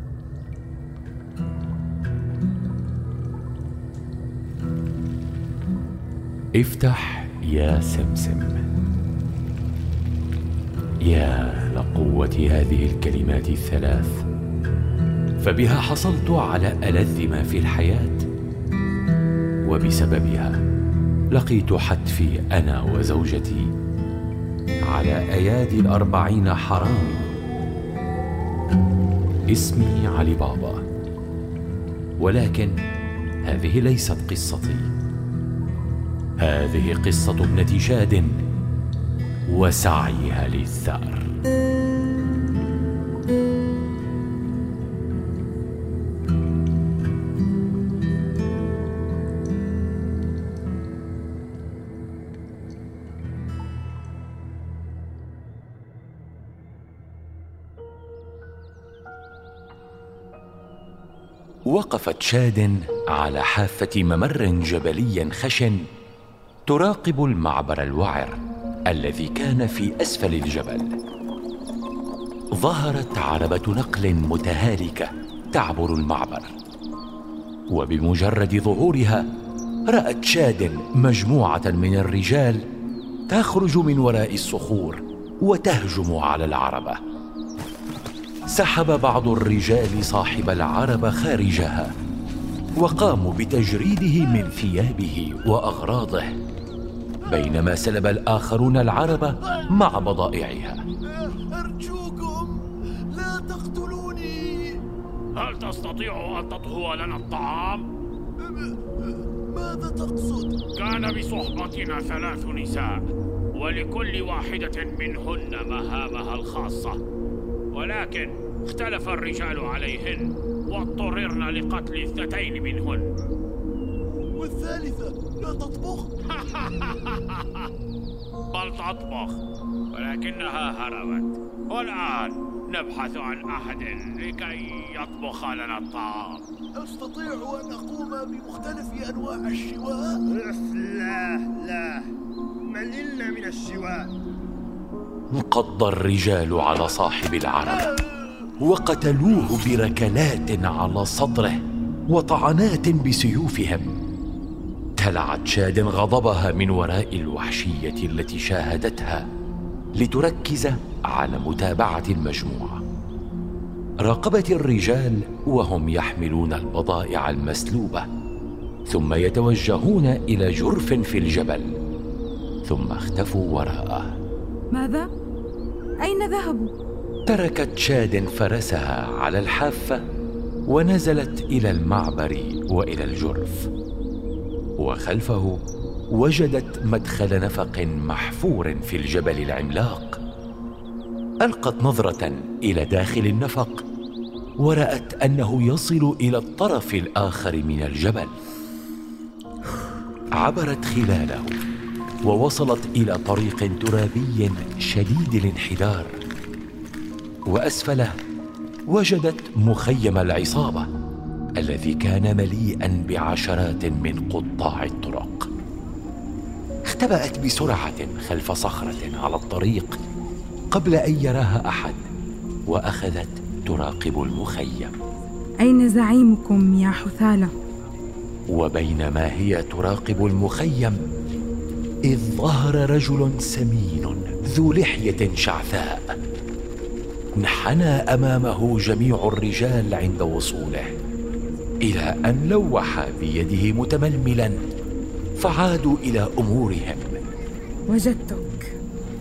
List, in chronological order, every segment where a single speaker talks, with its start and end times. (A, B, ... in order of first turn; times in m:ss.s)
0:06.6-0:08.6 A
0:11.0-0:14.2 A
0:15.4-0:18.3 A
0:19.6-0:20.6 A
0:21.3-0:23.7 A
0:24.9-0:27.3 A
0:29.5-0:30.8 A
0:32.2-0:32.8 A
0:33.4-0:34.9 A
0:36.4-0:38.4 A
0:39.5-0:41.3 A
1:01.7-1:05.9 A
1:06.7-1:08.4 A
1:08.9-1:11.0 A
1:12.6-1:16.5 A
1:17.7-1:19.3 A
1:19.9-1:22.6 A
1:23.3-1:27.0 A
1:28.5-1:31.9 A
1:32.8-1:36.3 A
1:37.3-1:40.8 A
1:41.3-1:42.6 B
1:43.1-1:44.8 B
1:45.4-1:47.9 C
1:48.4-1:48.7 B
1:49.5-1:50.5 B
1:50.8-1:53.0 C
1:53.6-1:57.0 C
1:57.7-2:03.1 C
2:04.4-2:06.1 B
2:06.2-2:07.6 C
2:08.5-2:09.4 C
2:09.9-2:16.4 C
2:16.8-2:18.6 B
2:19.3-2:20.1 B
2:20.3-2:22.1 D
2:22.7-2:24.1 D
2:25.3-2:27.9 A
2:28.6-2:31.6 A
2:32.1-2:33.9 A
2:35.0-2:39.2 A
2:40.0-2:42.8 A
2:44.0-2:48.1 A
2:48.9-2:51.8 A
2:52.7-2:54.2 A
2:54.7-2:55.1 E
2:56.0-2:56.7 E
2:57.3-3:00.0 A
3:00.7-3:03.7 A
3:04.8-3:05.6 A
3:06.1-3:10.2 A
3:11.4-3:13.8 A
3:14.6-3:18.3 A
3:20.4-3:21.6 A
3:22.2-3:26.2 A
3:27.5-3:28.1 A
3:28.9-3:30.9 A
3:31.6-3:35.5 A
3:36.9-3:40.0 A
3:40.7-3:42.0 A
3:42.7-3:45.0 A
3:45.6-3:47.5 E
3:48.5-3:51.0 A
3:52.1-3:56.0 A
3:57.4-4:01.0 A
4:01.8-4:04.6 A
4:05.4-4:07.2 A
4:07.9-4:08.7 E